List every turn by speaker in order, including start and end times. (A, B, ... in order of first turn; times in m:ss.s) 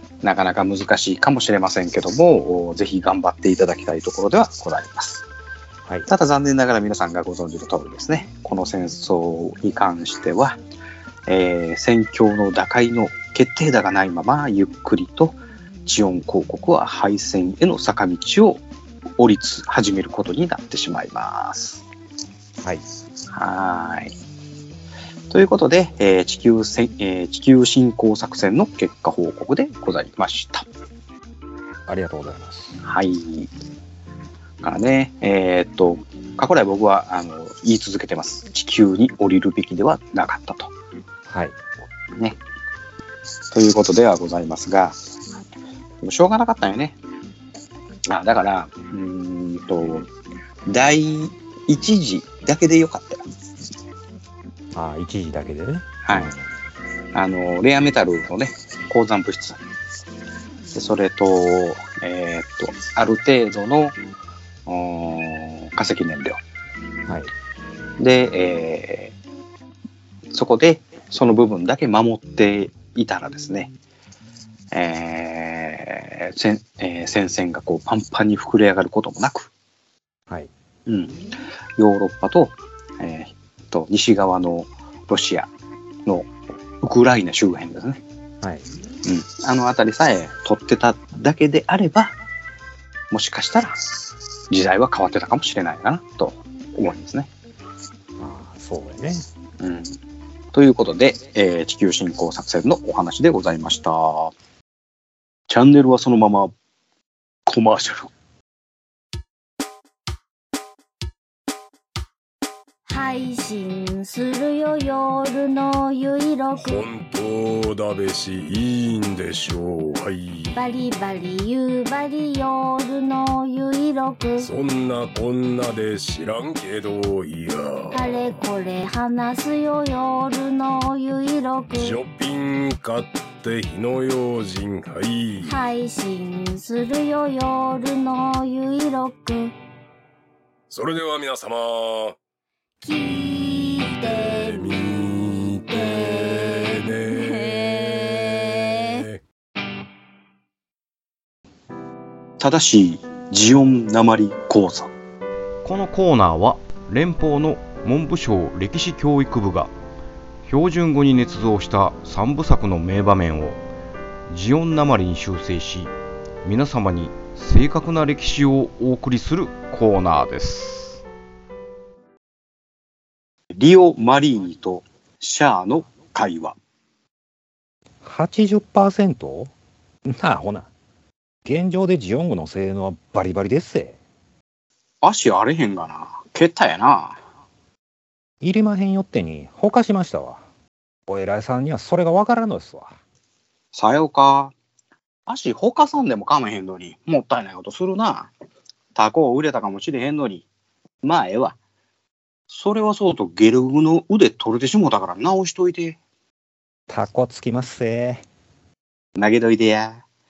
0:00.2-0:05.2 A
0:06.1-0:10.6 A
0:11.3-0:18.6 A
0:19.2-0:21.8 A
0:23.3-0:24.1 A
0:25.3-0:30.6 A
0:31.9-0:32.8 B
0:32.8-0:33.5 A
0:34.6-0:40.7 A
0:41.2-0:41.6 B
0:43.5-0:45.0 A
0:46.0-0:47.0 A
0:48.1-0:50.1 A
0:50.6-0:53.2 A
0:54.7-0:56.4 B
0:56.0-0:56.3 A
0:57.1-0:59.6 A
1:00.7-1:04.0 A
1:04.6-1:06.4 A
1:07.1-1:07.3 B
1:08.0-1:09.2 A
1:10.3-1:13.7 A
1:14.7-1:19.5 A
1:20.9-1:21.2 A
1:21.8-1:25.5 A
1:26.8-1:28.0 A
1:28.4-1:28.6 B
1:29.0-1:32.2 A
1:33.1-1:33.8 A
1:34.5-1:37.3 A
1:38.2-1:39.2 B
1:39.6-1:40.0 A
1:40.5-1:44.3 A
1:45.5-1:46.5 A
1:47.5-1:48.1 A
1:52.9-1:56.8 C
1:56.5-2:00.6 D
2:00.5-2:04.5 C
2:04.4-2:08.4 D
2:07.9-2:12.0 C
2:11.7-2:15.6 D
2:15.4-2:19.5 C
2:20.7-2:22.2 D
2:22.8-2:24.8 C
2:23.0-2:29.2 D
2:25.7-2:29.0 C
2:32.4-2:34.9 A
2:35.6-2:39.7 E
2:40.4-2:43.6 E
2:44.3-2:51.0 E
2:53.6-2:56.6 A
2:58.0-2:59.5 B
3:00.0-3:00.7 B
3:01.4-3:04.0 B
3:05.0-3:07.2 A
3:08.4-3:10.4 B
3:11.1-3:12.9 B
3:13.7-3:14.5 A
3:15.3-3:18.3 A
3:18.9-3:20.4 A
3:21.0-3:21.6 A
3:22.5-3:26.0 A
3:26.9-3:28.2 B
3:29.2-3:30.0 A